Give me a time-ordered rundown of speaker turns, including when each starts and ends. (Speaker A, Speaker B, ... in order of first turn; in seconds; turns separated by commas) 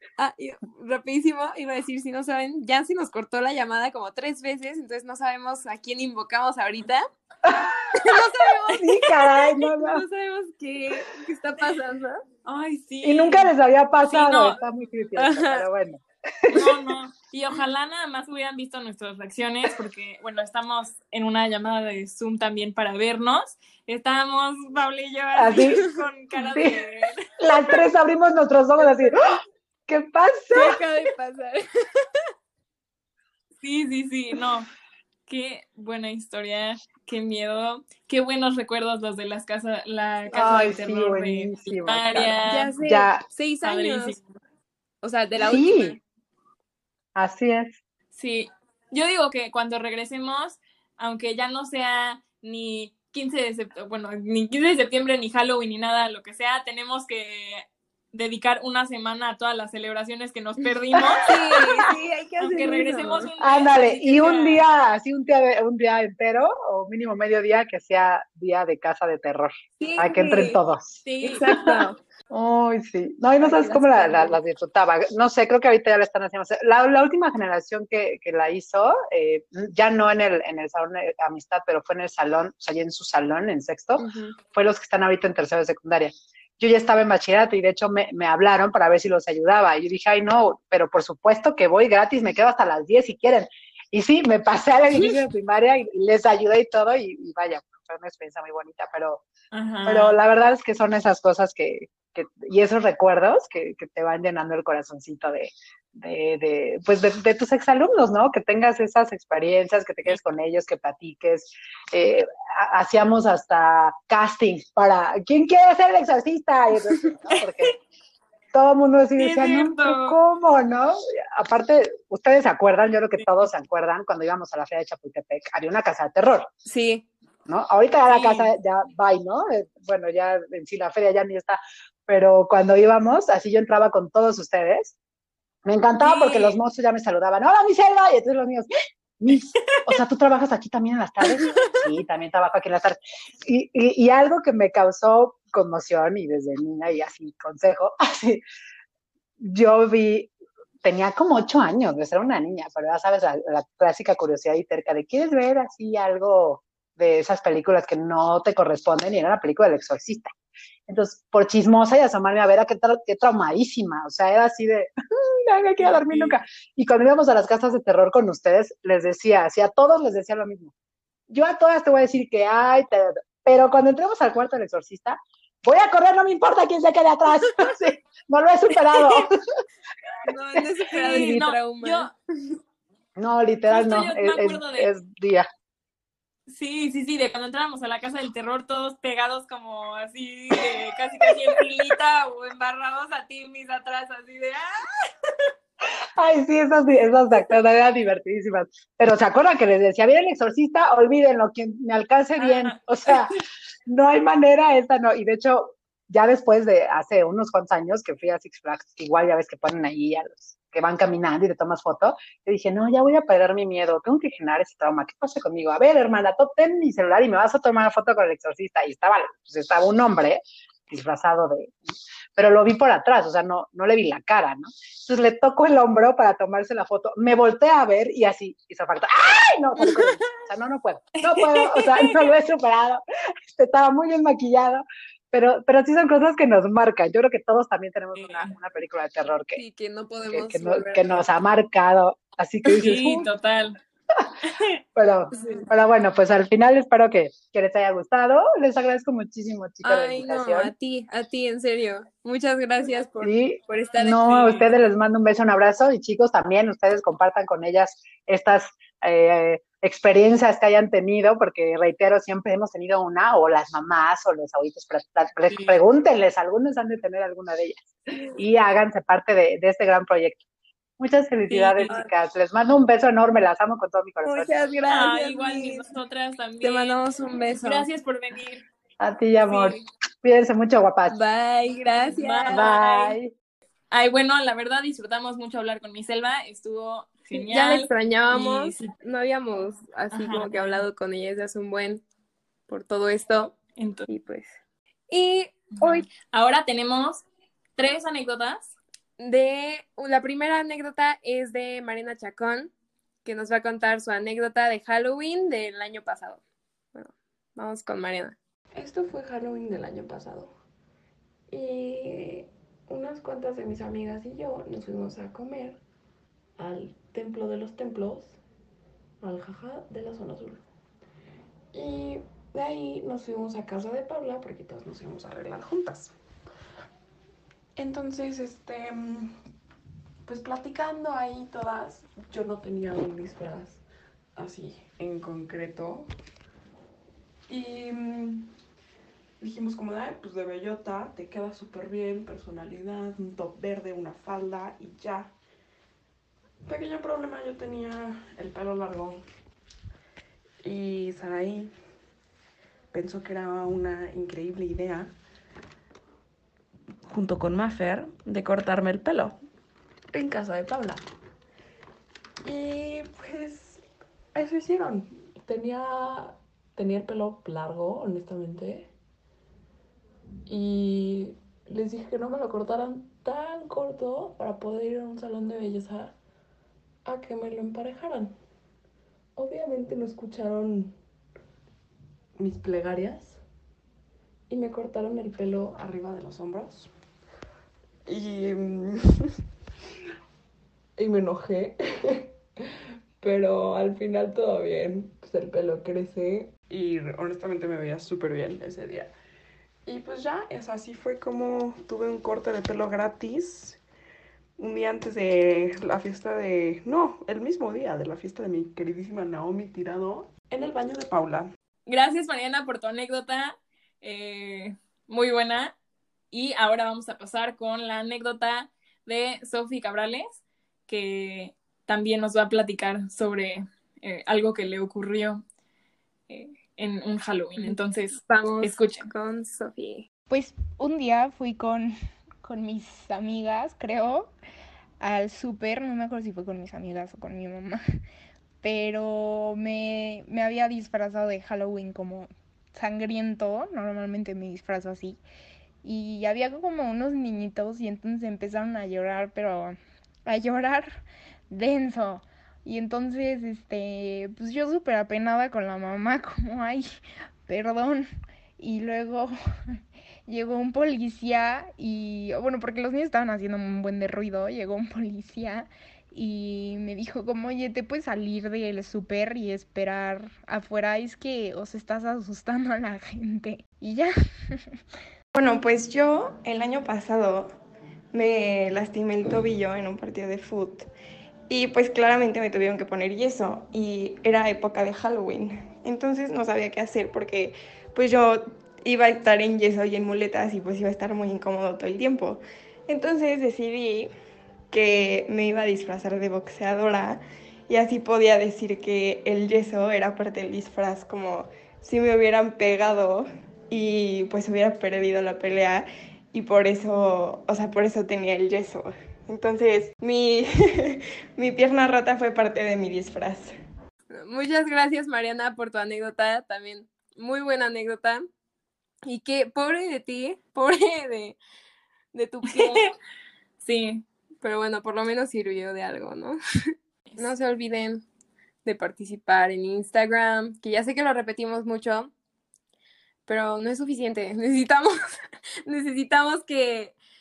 Speaker A: 0.2-7.1, Speaker B: 7.5-7.7, Speaker A: 8.0-9.0, Speaker B: 8.7-10.0, Speaker A: 9.7-12.2, Speaker C: 12.4-13.5, Speaker B: 13.0-16.8, Speaker C: 14.0-14.6, Speaker A: 15.2-15.7, Speaker C: 16.5-27.2, Speaker B: 25.4-25.8, Speaker B: 26.4-26.8, Speaker B: 27.4-30.8, Speaker A: 30.5-32.1, Speaker C: 33.6-34.7, Speaker C: 35.3-42.7, Speaker A: 40.3-40.6, Speaker B: 40.3-43.2, Speaker A: 42.5-44.2, Speaker C: 43.6-44.2, Speaker A: 45.0-46.0, Speaker B: 45.4-46.0, Speaker B: 47.2-47.8, Speaker C: 48.1-61.3, Speaker B: 61.0-61.8, Speaker A: 61.2-63.3, Speaker C: 62.4-64.7, Speaker B: 63.4-71.0, Speaker A: 69.8-70.6, Speaker C: 71.0-71.4, Speaker A: 71.2-72.0, Speaker B: 72.3-99.2, Speaker A: 73.4-74.4, Speaker A: 84.0-84.4, Speaker C: 99.5-100.2, Speaker B: 99.8-117.7, Speaker C: 117.3-117.7, Speaker B: 118.5-126.5, Speaker C: 119.2-120.2, Speaker A: 126.7-127.0, Speaker B: 127.5-135.0, Speaker C: 128.1-128.5, Speaker B: 135.7-138.7, Speaker C: 136.0-136.6, Speaker B: 139.2-148.4, Speaker C: 141.4-141.7, Speaker B: 149.4-150.3, Speaker B: 150.8-160.3, Speaker B: 160.9-170.7, Speaker C: 165.8-166.4, Speaker B: 171.3-179.3, Speaker C: 178.9-179.2, Speaker A: 180.2-182.6, Speaker B: 180.9-181.4, Speaker C: 180.9-182.1, Speaker B: 183.2-185.5, Speaker C: 183.7-184.9, Speaker C: 186.5-195.5, Speaker B: 196.2-221.8, Speaker C: 202.4-203.2, Speaker B: 222.4-239.6, Speaker A: 229.8-230.0, Speaker C: 238.2-238.5, Speaker A: 239.6-241.3, Speaker B: 240.3-243.3, Speaker C: 242.8-243.8, Speaker B: 244.9-250.7, Speaker A: 245.4-245.6, Speaker A: 249.8-254.3, Speaker B: 253.2-270.4, Speaker C: 254.2-254.7, Speaker A: 268.1-268.4, Speaker B: 271.0-274.5, Speaker C: 271.5-271.9, Speaker A: 274.2-275.9, Speaker C: 274.9-277.0, Speaker A: 276.6-277.9, Speaker C: 277.6-278.6, Speaker B: 279.0-281.1, Speaker C: 279.4-279.8, Speaker A: 281.1-282.7, Speaker C: 282.1-283.2, Speaker B: 282.5-283.3, Speaker C: 283.9-288.9, Speaker A: 287.3-292.0, Speaker C: 290.1-290.8, Speaker A: 292.7-293.6, Speaker C: 293.8-294.1, Speaker A: 294.1-294.6, Speaker A: 295.1-296.1, Speaker C: 295.8-297.2, Speaker C: 297.8-298.8, Speaker A: 299.2-302.7, Speaker A: 303.2-306.4, Speaker A: 306.9-308.4, Speaker D: 308.8-310.5, Speaker D: 311.5-315.8, Speaker D: 316.6-318.4, Speaker D: 319.2-320.6, Speaker D: 321.7-326.2, Speaker D: 327.8-329.4, Speaker D: 330.2-333.8, Speaker D: 334.4-336.1, Speaker D: 337.5-338.5, Speaker D: 339.4-345.3, Speaker D: 346.6-349.2, Speaker D: 350.6-351.7, Speaker D: 352.9-355.1, Speaker D: 357.1-359.4, Speaker D: 360.1-361.1, Speaker D: 362.4-363.8, Speaker D: 364.3-368.9, Speaker D: 370.5-376.2, Speaker D: 377.1-378.4, Speaker D: 379.4-380.9, Speaker D: 382.4-383.4, Speaker D: 384.5-386.9, Speaker D: 388.1-389.3, Speaker D: 391.0-392.3, Speaker D: 393.2-399.1, Speaker D: 399.9-403.8, Speaker D: 404.6-411.5, Speaker C: 411.9-415.7, Speaker C: 416.3-425.4, Speaker C: 426.3-429.1, Speaker A: 427.6-430.1, Speaker E: 430.3-434.3, Speaker E: 435.0-437.8, Speaker E: 438.6-445.2, Speaker E: 445.8-456.9, Speaker E: 457.5-458.1, Speaker E: 458.6-459.3, Speaker E: 460.3-474.6, Speaker F: 475.3-477.6, Speaker F: 478.1-480.9, Speaker F: 481.5-494.1, Speaker F: 494.7-513.6, Speaker A: 514.1-518.2, Speaker A: 519.0-521.4, Speaker A: 522.1-522.9, Speaker C: 522.5-522.9, Speaker C: 523.6-524.0, Speaker A: 524.4-526.4, Speaker A: 527.2-528.0, Speaker A: 528.6-532.1, Speaker A: 533.3-534.9, Speaker A: 535.7-537.0